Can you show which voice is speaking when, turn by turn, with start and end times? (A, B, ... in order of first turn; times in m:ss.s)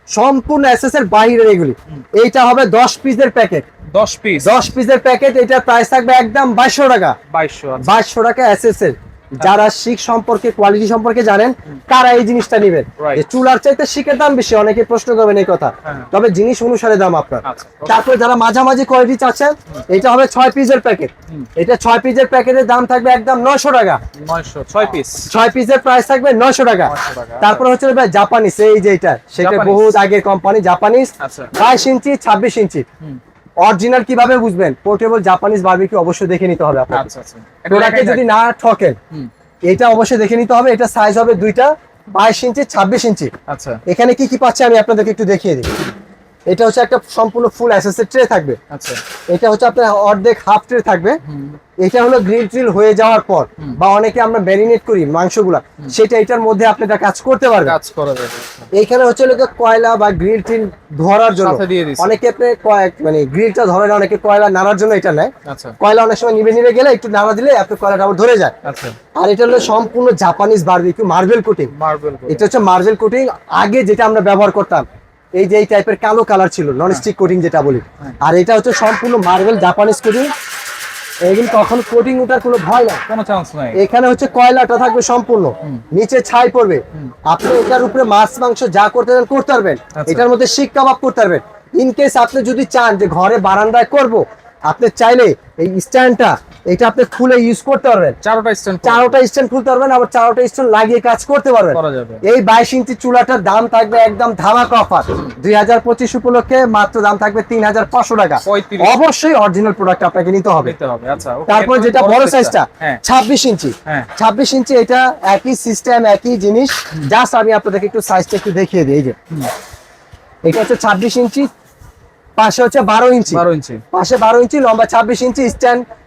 0:00.1-0:03.6 A
0:03.9-0:04.6 B
0:04.4-0:07.2 A
0:07.3-0:07.9 B
0:07.8-0:24.0 A
0:13.0-0:13.2 B
0:15.8-0:16.1 B
0:17.4-0:18.0 B
0:24.2-0:25.3 B
0:25.2-0:32.8 A
0:26.9-0:27.6 B
0:29.4-0:30.0 B
0:31.2-0:31.5 B
0:33.6-0:37.1 A
0:36.9-0:38.3 B
0:37.7-0:39.0 A
0:39.7-0:43.3 A
0:43.5-0:43.8 B
0:43.9-0:45.7 A
0:46.5-0:48.6 A
0:48.7-0:49.0 B
0:49.3-0:51.2 A
0:51.3-0:51.6 B
0:51.8-0:57.8 A
0:57.6-0:58.7 B
0:58.7-1:08.5 A
1:01.4-1:02.2 B
1:05.4-1:05.8 B
1:08.6-1:09.0 B
1:09.2-1:11.7 A
1:11.7-1:12.6 B
1:12.3-1:14.9 A
1:15.4-1:20.3 A
1:21.2-1:23.0 A
1:23.1-1:23.8 B
1:23.7-1:38.2 A
1:29.9-1:30.3 B
1:38.2-1:39.2 B
1:38.8-1:50.7 A
1:41.7-1:42.2 B
1:48.4-1:49.0 B
1:50.6-1:53.0 B
1:51.5-1:59.2 A
1:53.8-1:54.1 B
2:00.4-2:01.5 A
2:02.4-2:05.8 A
2:03.3-2:03.8 B